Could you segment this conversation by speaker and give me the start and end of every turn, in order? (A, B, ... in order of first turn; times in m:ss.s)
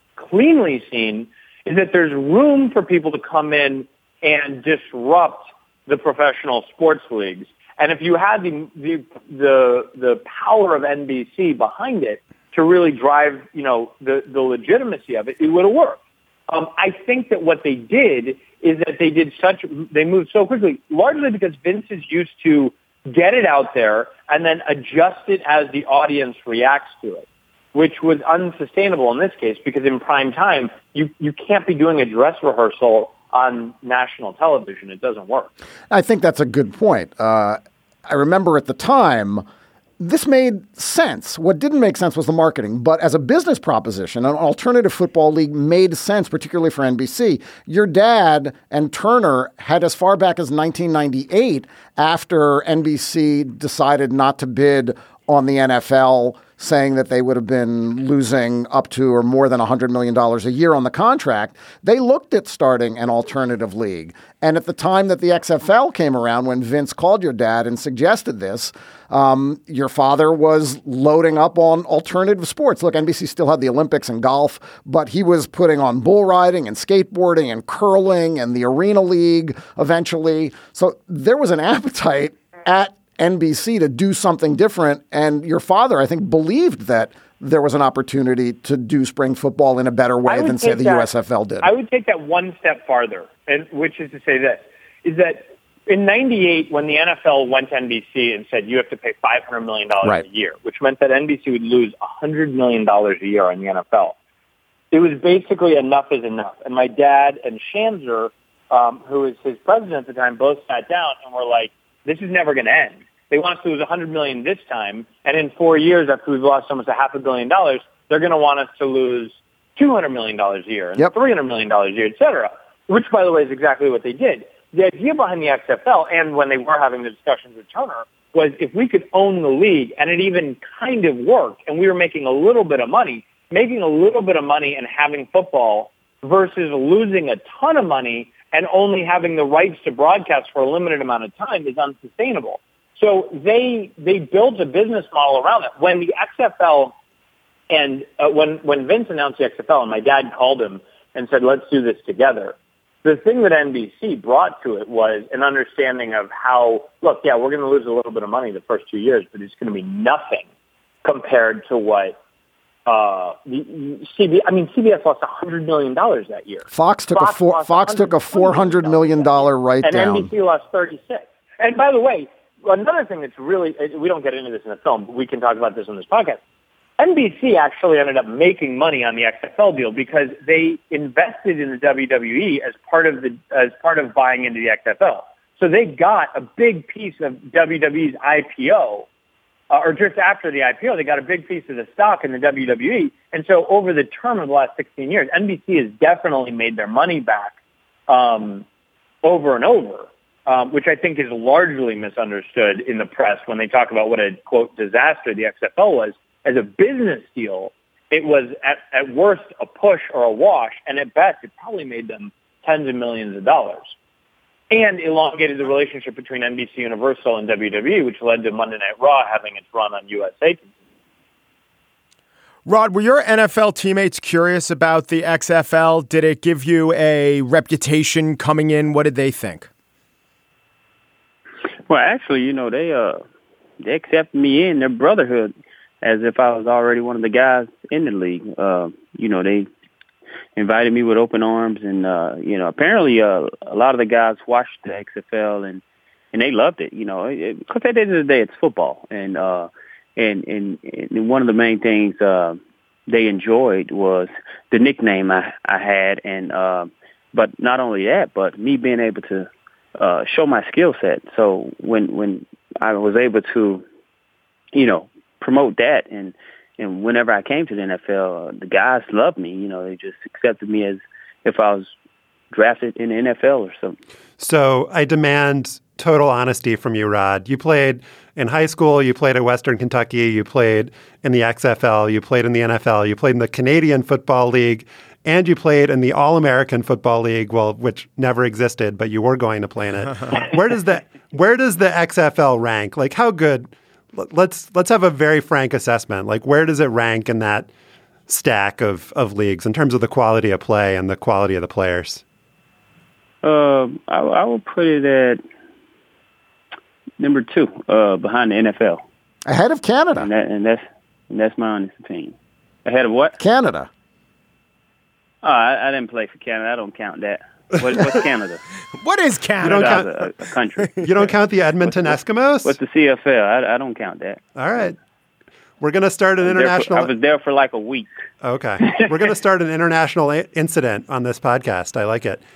0:00.2-0:35.5 A
0:35.9-0:39.4 B
0:40.0-1:31.7 B
1:30.3-1:31.1 A
1:31.6-1:44.1 A
1:44.9-2:26.9 A
2:27.7-2:40.5 A
2:41.0-2:42.2 A
2:42.9-2:56.4 A
2:46.7-2:50.3 B
2:57.0-3:09.1 A
3:09.7-3:17.6 A
3:18.1-3:18.6 A
3:19.2-3:33.9 A
3:34.7-3:40.6 A
3:42.7-3:49.7 C
3:51.9-3:53.2 D
3:53.8-3:59.7 D
4:00.6-4:05.8 D
4:06.3-4:23.8 D
4:24.7-4:31.9 D
4:32.5-4:34.0 D
4:34.4-4:57.7 E
4:58.3-5:02.2 E
5:03.4-5:05.4 D
5:07.2-5:09.0 D
5:09.5-5:10.3 B
5:10.2-5:13.4 D
5:13.4-5:13.9 B
5:15.4-5:18.6 D
5:19.0-5:20.3 C
5:19.6-5:20.1 E
5:19.7-5:21.0 D
5:21.0-5:22.8 E
5:22.6-5:24.4 D
5:24.6-5:25.0 E
5:25.8-5:27.1 E
5:26.4-5:28.1 D
5:28.4-5:32.4 E